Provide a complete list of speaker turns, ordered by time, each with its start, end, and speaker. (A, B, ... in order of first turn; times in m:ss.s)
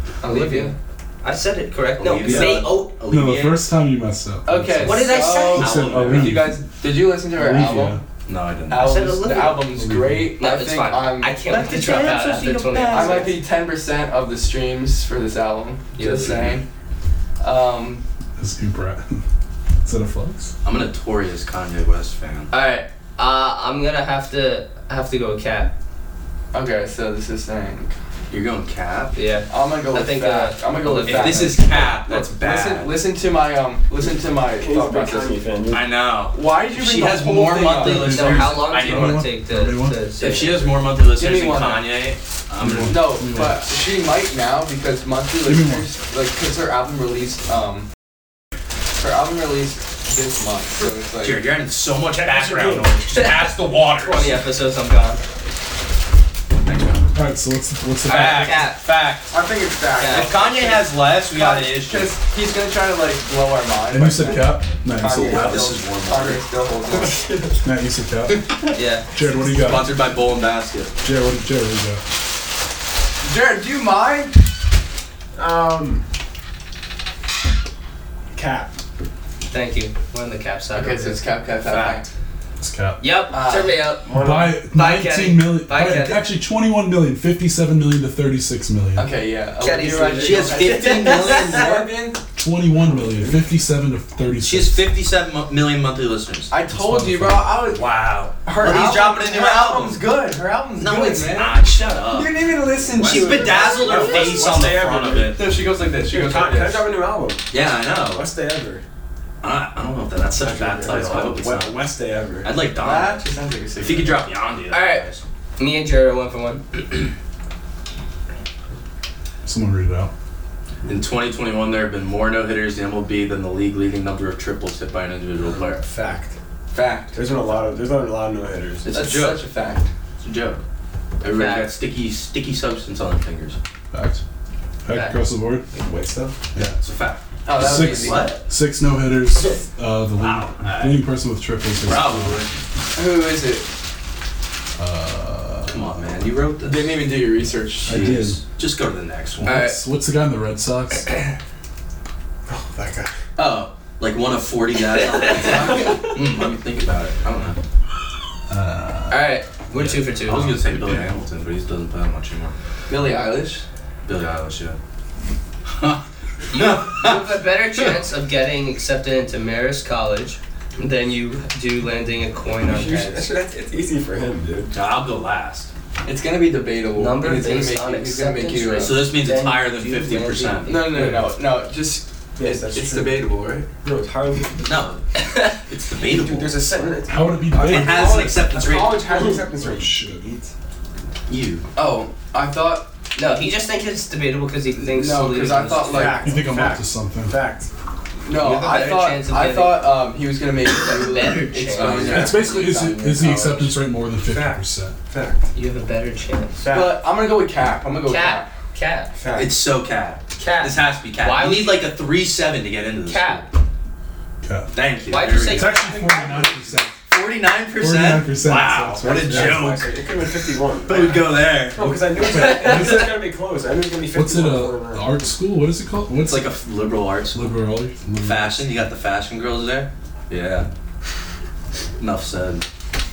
0:00.2-0:00.7 A
0:00.2-0:02.7 B
0:02.0-0:03.6 C
0:03.1-0:06.7 D
0:04.4-0:08.0 A
0:04.8-0:05.8 B
0:05.3-0:06.4 C
0:07.3-0:08.0 D
0:08.2-0:09.0 C
0:08.7-0:11.5 A
0:08.8-0:09.7 B
0:09.7-0:10.3 D
0:10.4-0:13.3 B
0:11.5-0:13.3 C
0:12.9-0:16.6 A
0:16.0-0:16.3 B
0:16.2-0:16.6 C
0:17.4-0:18.0 A
0:18.4-0:19.2 D
0:19.8-0:20.5 D
0:20.6-0:22.5 C
0:22.5-0:25.7 B
0:26.5-0:27.9 A
0:28.3-0:29.1 C
0:29.1-0:31.5 B
0:29.5-0:35.4 A
0:31.0-0:32.9 C
0:34.6-0:35.9 E
0:35.7-0:39.3 C
0:36.3-0:38.2 A
0:37.8-0:40.1 D
0:37.8-0:40.7 B
0:40.2-0:43.1 C
0:41.1-0:41.9 A
0:42.6-0:43.7 D
0:42.8-0:47.9 A
0:45.4-0:45.9 D
0:49.0-0:51.4 A
0:51.2-0:54.4 C
0:53.1-0:55.2 B
0:56.6-0:57.1 C
0:57.1-0:58.7 D
0:58.0-0:59.3 C
0:58.1-0:58.8 B
0:59.3-1:07.4 A
0:59.3-1:00.2 E
1:00.0-1:00.4 B
1:00.0-1:02.1 C
1:03.9-1:05.8 D
1:05.2-1:06.4 C
1:07.6-1:08.4 D
1:08.5-1:08.7 C
1:08.7-1:09.0 B
1:09.1-1:10.0 D
1:09.4-1:10.9 C
1:11.0-1:12.0 D
1:13.2-1:14.4 A
1:15.3-1:16.0 E
1:18.3-1:18.8 E
1:19.5-1:21.2 B
1:20.7-1:22.1 A
1:21.6-1:22.0 C
1:22.6-1:23.1 D
1:23.0-1:24.1 B
1:23.3-1:23.8 A
1:24.0-1:24.6 E
1:24.1-1:29.1 D
1:24.7-1:26.2 B
1:28.9-1:32.2 A
1:29.6-1:31.7 B
1:30.2-1:31.9 C
1:32.3-1:34.8 D
1:32.9-1:33.3 E
1:34.4-1:36.5 C
1:36.5-1:37.9 A
1:36.7-1:37.5 D
1:37.7-1:40.0 C
1:38.4-1:44.5 A
1:40.8-1:45.4 C
1:43.0-1:45.4 E
1:45.3-1:46.9 A
1:46.0-1:48.8 E
1:47.5-1:48.3 C
1:49.4-1:51.8 C
1:50.4-1:52.5 E
1:52.4-1:53.2 C
1:52.7-1:54.3 A
1:53.8-1:55.2 C
1:54.7-1:55.0 B
1:55.6-1:56.6 B
1:59.4-2:00.1 D
2:00.8-2:05.8 C
2:05.4-2:06.4 E
2:06.7-2:07.2 A
2:07.1-2:08.9 E
2:08.8-2:09.4 C
2:08.9-2:09.9 A
2:10.2-2:10.6 C
2:11.2-2:13.6 C
2:11.3-2:11.7 B
2:13.9-2:14.2 D
2:14.8-2:15.7 D
2:14.9-2:15.2 B
2:15.7-2:16.5 E
2:16.5-2:16.8 D
2:16.8-2:18.4 C
2:17.4-2:18.3 A
2:17.5-2:22.4 D
2:20.2-2:21.0 C
2:21.8-2:22.5 C
2:22.9-2:23.7 A
2:24.8-2:26.2 D
2:25.7-2:26.9 C
2:26.6-2:28.2 A
2:27.8-2:28.4 D
2:27.9-2:29.7 C
2:29.4-2:31.1 D
2:29.4-2:29.7 B
2:32.5-2:33.1 E
2:33.4-2:37.6 C
2:35.0-2:35.9 B
2:38.5-2:39.9 D
2:39.1-2:40.5 B
2:40.2-2:42.5 C
2:40.5-2:41.1 D
2:42.9-2:43.6 A
2:44.0-2:44.8 C
2:46.5-2:47.9 C
2:46.5-2:53.2 B
2:52.6-2:54.7 E
2:54.7-2:55.7 C
2:56.0-2:59.0 A
2:57.0-3:01.1 B
2:58.8-3:00.8 C
3:00.6-3:03.7 A
3:02.4-3:03.2 E
3:03.8-3:04.8 E
3:04.6-3:05.0 C
3:05.2-3:05.5 B
3:05.6-3:06.6 C
3:06.0-3:10.5 E
3:07.1-3:08.4 D
3:07.6-3:09.1 C
3:09.2-3:10.3 D
3:11.3-3:11.6 C
3:11.8-3:12.9 A
3:13.1-3:16.2 B
3:14.8-3:16.3 A
3:15.9-3:17.7 E
3:16.1-3:17.4 D
3:18.2-3:23.7 A
3:18.4-3:19.8 B
3:20.9-3:22.4 B
3:21.8-3:22.1 C
3:22.0-3:25.0 D
3:24.3-3:25.5 E
3:25.5-3:26.6 B
3:26.6-3:27.0 E
3:26.7-3:28.5 A
3:28.0-3:29.1 B
3:29.2-3:29.5 E
3:29.3-3:33.5 C
3:30.4-3:31.8 B
3:33.0-3:33.5 B
3:34.4-3:34.7 D
3:34.7-3:35.8 C
3:35.1-3:35.9 B
3:35.4-3:37.0 D
3:35.9-3:36.7 E
3:37.0-3:42.1 C
3:37.8-3:39.7 D
3:39.0-3:45.3 E
3:42.2-3:43.1 D
3:42.3-3:43.1 B
3:44.1-3:46.5 D
3:46.3-3:47.5 C
3:47.3-3:48.6 D
3:48.2-3:50.7 C
3:52.0-3:52.6 C